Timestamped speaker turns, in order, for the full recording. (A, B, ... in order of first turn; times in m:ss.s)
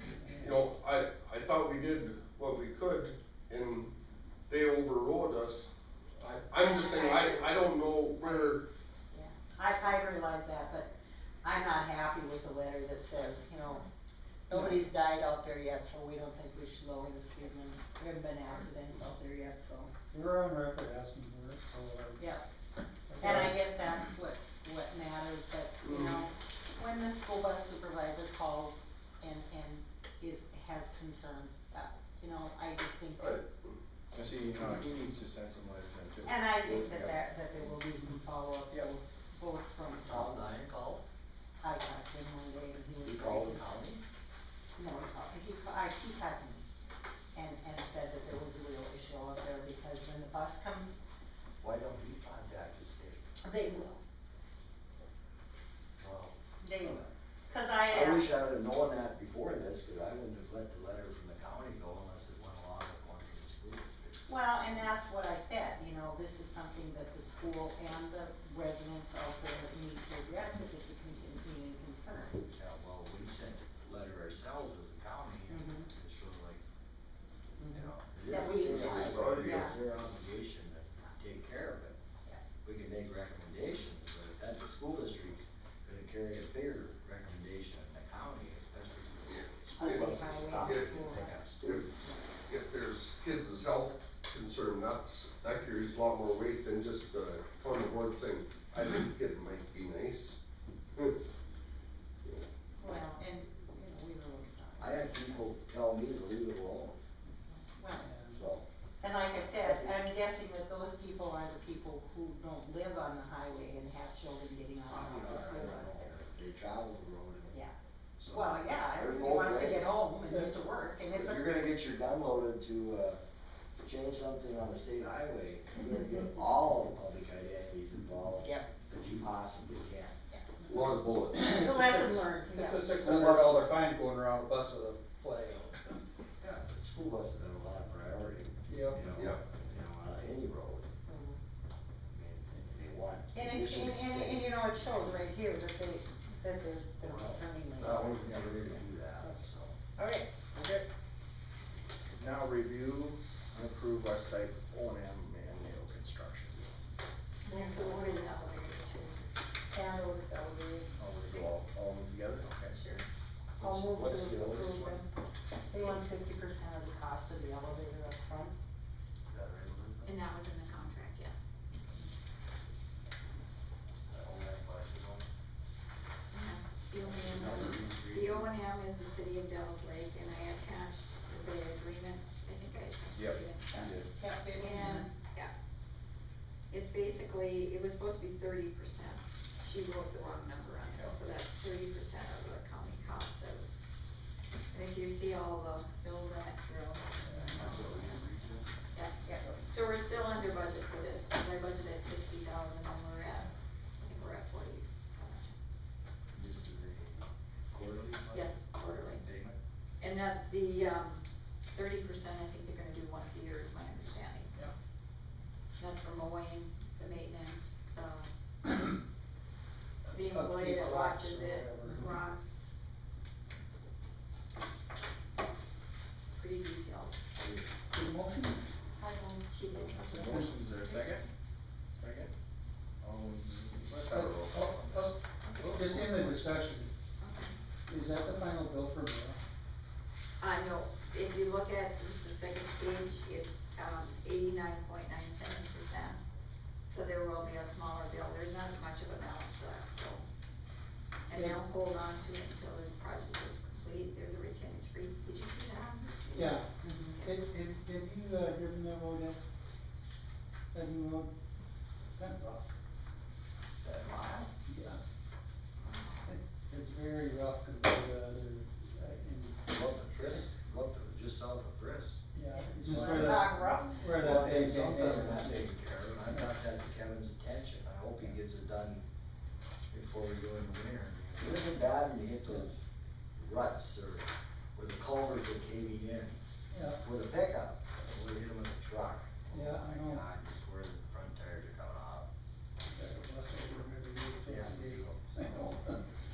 0:00.2-0:00.5 A
0:00.3-0:03.9 B
0:04.5-0:08.6 B
0:06.6-0:07.5 C
0:08.2-0:08.6 C
0:09.1-0:10.9 C
0:11.4-0:13.8 C
0:14.5-0:19.9 C
0:14.5-0:14.8 A
0:20.1-0:22.2 A
0:22.2-0:22.4 C
0:23.1-0:23.6 A
0:23.2-0:33.4 C
0:25.8-0:26.2 B
0:33.2-0:33.7 B
0:34.1-0:37.2 D
0:36.3-0:40.5 C
0:40.0-0:41.0 E
0:41.6-0:43.8 C
0:43.0-0:44.0 E
0:44.8-0:46.6 C
0:47.4-0:50.9 C
0:51.6-0:53.3 E
0:53.4-0:54.0 C
0:56.0-0:56.3 E
0:56.6-0:58.4 C
0:57.9-1:04.9 E
1:04.3-1:12.4 C
1:12.5-1:16.6 E
1:15.5-1:15.9 C
1:17.6-1:19.8 C
1:17.7-1:22.0 E
1:18.5-1:19.7 B
1:22.6-1:32.0 E
1:29.4-1:30.9 B
1:29.8-1:32.2 C
1:31.6-1:31.9 B
1:32.5-1:40.4 B
1:42.8-1:45.4 C
1:44.8-1:47.0 E
1:47.5-1:48.1 C
1:48.0-1:48.4 A
1:48.3-1:48.6 E
1:49.0-1:56.1 C
1:49.6-1:50.0 E
1:54.9-1:57.6 E
1:58.2-2:00.0 E
1:58.3-2:01.5 C
2:00.2-2:00.5 A
2:01.1-2:03.2 E
2:03.8-2:10.2 E
2:10.3-2:10.6 C
2:10.7-2:11.4 B
2:11.3-2:15.9 A
2:11.4-2:13.7 C
2:16.4-2:20.9 E
2:18.7-2:19.1 A
2:21.1-2:21.4 C
2:22.1-2:24.5 E
2:23.3-2:29.4 C
2:27.0-2:29.8 E
2:30.0-2:30.3 C
2:30.6-2:30.8 D
2:32.1-2:36.7 D
2:37.4-2:39.2 F
2:37.5-2:38.3 C
2:39.7-2:41.4 C
2:41.0-2:42.8 D
2:42.7-2:43.0 F
2:43.6-2:45.0 E
2:43.6-2:45.1 C
2:45.7-2:48.6 C
2:45.8-2:46.2 F
2:49.3-2:50.2 E
2:50.0-2:51.4 F
2:54.0-2:55.3 E
2:56.3-3:03.7 F
2:57.0-2:58.4 E
3:03.2-3:03.9 D
3:03.7-3:05.1 C
3:04.6-3:05.5 F
3:06.7-3:13.6 F
3:10.9-3:11.3 E
3:14.7-3:18.0 F
3:17.3-3:17.7 A
3:17.6-3:18.7 E
3:18.9-3:25.5 F
3:26.3-3:29.6 E
3:28.3-3:29.2 F
3:30.0-3:34.5 F
3:35.8-3:38.3 F
3:40.1-3:42.7 F
3:40.3-3:42.2 A
3:46.3-3:47.2 F
3:47.9-3:48.6 A
3:49.0-3:49.5 C
3:49.5-3:50.4 F
3:50.1-3:51.2 D
3:50.1-3:50.5 A
3:52.0-3:52.3 D
3:53.0-3:54.8 D
3:54.1-3:55.2 A
3:54.5-3:55.0 E
3:55.6-3:56.1 E
3:55.7-3:56.9 A
3:57.2-3:57.6 F
3:57.9-3:59.4 A
4:00.4-4:06.2 F
4:06.9-4:10.2 F
4:11.3-4:16.6 F
4:16.3-4:16.7 A
4:16.8-4:17.2 C
4:17.2-4:19.4 A
4:20.7-4:21.3 A
4:22.2-4:22.6 A
4:23.8-4:24.5 E
4:24.7-4:25.0 A
4:25.9-4:26.2 F
4:26.2-4:29.7 A
4:29.7-4:32.2 E
4:32.4-4:35.7 A
4:32.5-4:34.0 C
4:32.9-4:33.4 E
4:34.0-4:39.1 E
4:39.9-4:42.8 E
4:43.4-4:52.3 E
4:46.7-4:47.0 A
4:49.5-4:50.2 A
4:52.9-4:56.0 A
4:54.5-4:55.4 E